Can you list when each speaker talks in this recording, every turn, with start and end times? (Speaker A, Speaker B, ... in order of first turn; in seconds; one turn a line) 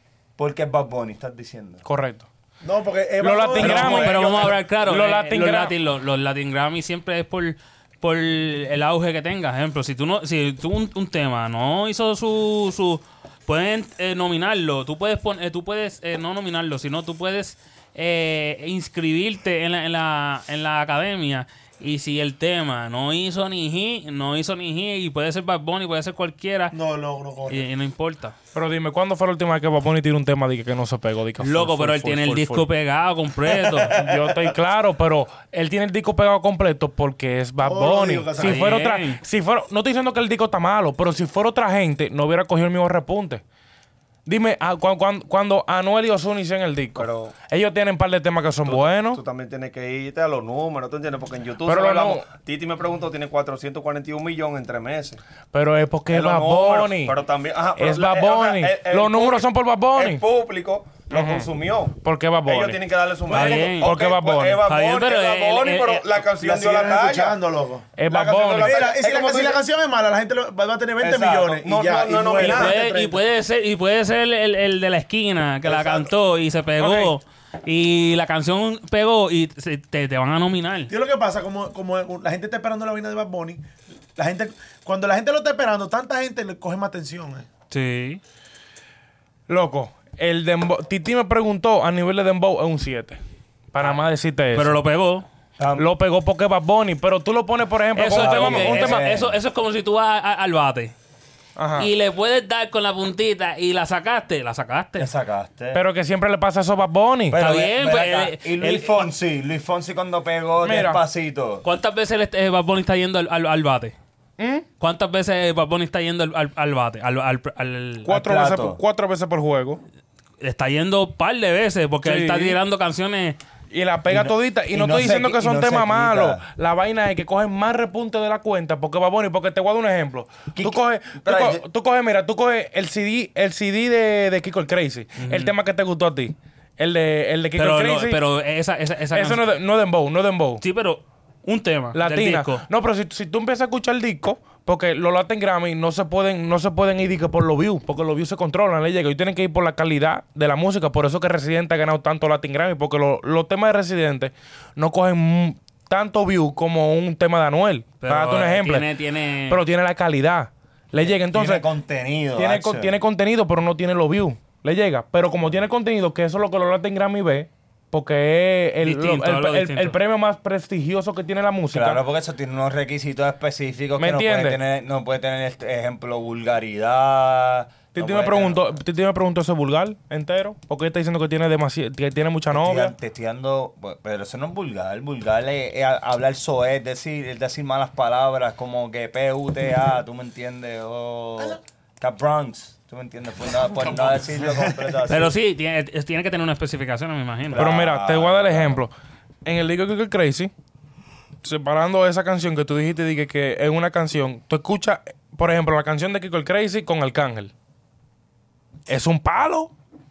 Speaker A: 0.4-1.8
Speaker B: 1.8-2.3
Speaker C: 2.6-4.6
Speaker B: 3.2-5.7
Speaker D: 3.6-26.7
Speaker C: 26.7-27.6
Speaker D: 27.5-28.3
Speaker B: 28.5-32.6
Speaker D: 31.4-34.0
Speaker C: 33.7-34.5
Speaker B: 33.9-43.4
Speaker C: 37.6-38.8
Speaker D: 38.4-39.2
Speaker B: 44.2-49.2
Speaker E: 47.0-47.3
Speaker E: 48.7-55.2
Speaker B: 51.6-52.2
Speaker B: 55.5-57.1
Speaker E: 56.1-61.9
Speaker B: 57.8-60.2
Speaker B: 61.1-64.6
Speaker E: 62.4-67.4
Speaker D: 63.3-63.9
Speaker D: 64.7-66.2
Speaker C: 66.4-73.2
Speaker B: 68.0-68.8
Speaker E: 68.1-69.6
Speaker A: 71.0-71.6
Speaker E: 71.5-72.9
Speaker D: 72.4-80.9
Speaker C: 75.7-76.1
Speaker B: 76.8-77.1
Speaker C: 80.9-87.5
Speaker D: 87.7-88.2
Speaker B: 89.5-93.2
Speaker B: 93.7-94.8
Speaker D: 94.5-95.2
Speaker A: 95.6-95.8
Speaker B: 95.8-99.0
Speaker D: 98.0-100.9
Speaker A: 98.1-99.3
Speaker B: 101.6-101.9
Speaker D: 101.8-105.1
Speaker A: 105.0-105.8
Speaker B: 105.7-107.4
Speaker A: 107.3-111.6
Speaker D: 107.3-109.1
Speaker B: 110.6-111.0
Speaker D: 111.6-113.9
Speaker B: 114.4-114.6
Speaker D: 114.8-118.1
Speaker B: 118.0-119.8
Speaker A: 118.1-118.8
Speaker D: 120.4-123.4
Speaker B: 122.0-122.6
Speaker B: 123.7-138.2
Speaker A: 124.1-126.4
Speaker A: 130.5-131.6
Speaker D: 135.2-135.5
Speaker D: 137.6-139.4
Speaker B: 139.1-140.6
Speaker D: 140.6-142.6
Speaker B: 141.9-158.9
Speaker D: 158.0-159.6
Speaker B: 159.5-161.7
Speaker A: 161.0-163.0
Speaker B: 162.3-172.0
Speaker D: 168.8-170.0
Speaker A: 171.7-178.6
Speaker B: 174.0-174.6
Speaker B: 177.9-182.9
Speaker A: 182.5-195.3
Speaker C: 193.7-195.0
Speaker D: 195.1-197.6
Speaker A: 197.5-198.8
Speaker B: 197.5-198.9
Speaker B: 199.4-200.5
Speaker B: 201.4-207.5
Speaker B: 208.9-209.7